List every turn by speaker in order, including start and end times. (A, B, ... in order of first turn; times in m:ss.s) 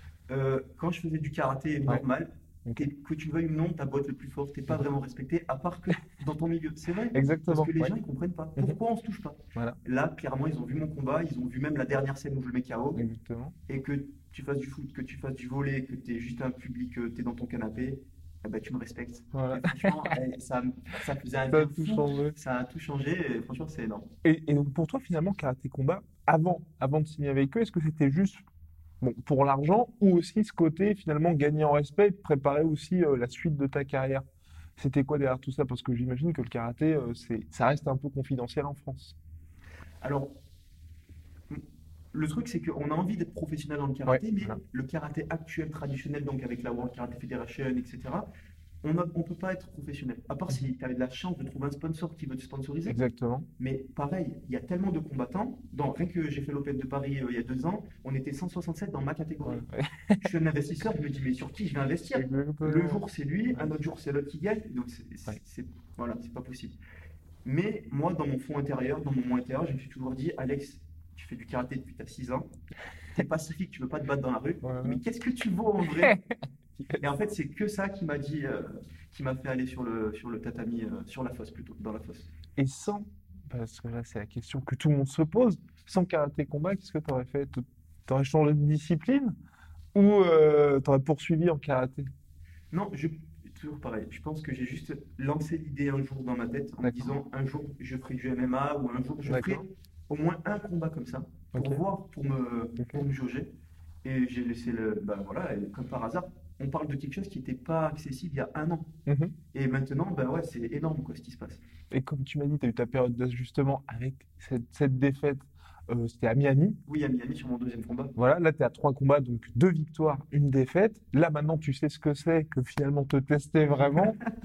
0:00.3-0:13.0 A
0:07.1-0:08.0 B
0:12.9-0:13.5 B
0:13.7-0:24.1 A
0:19.3-0:20.1 B
0:21.5-0:22.3 B
0:24.2-0:28.4 B
0:29.0-0:34.2 B
0:34.8-0:39.2 B
0:40.0-0:40.3 A
0:42.1-0:48.2 A
0:44.1-0:44.6 B
0:48.8-0:53.0 A
0:52.9-0:53.5 B
0:53.6-0:59.6 A
0:59.4-1:00.3 B
1:00.2-1:06.8 A
1:02.1-1:03.7 B
1:07.4-1:12.5 A
1:13.1-1:16.1 A
1:14.6-1:15.0 B
1:15.8-1:17.0 B
1:17.0-1:22.3 A
1:22.6-1:29.3 B
1:29.9-1:32.1 B
1:32.7-1:43.5 A
1:36.8-1:37.1 B
1:39.2-1:39.6 B
1:41.5-1:41.8 B
1:42.8-1:43.0 B
1:44.0-1:48.9 A
1:49.0-1:49.3 B
1:49.5-1:51.6 A
1:51.9-1:56.8 B
1:56.8-1:58.1 A
1:58.2-2:04.2 B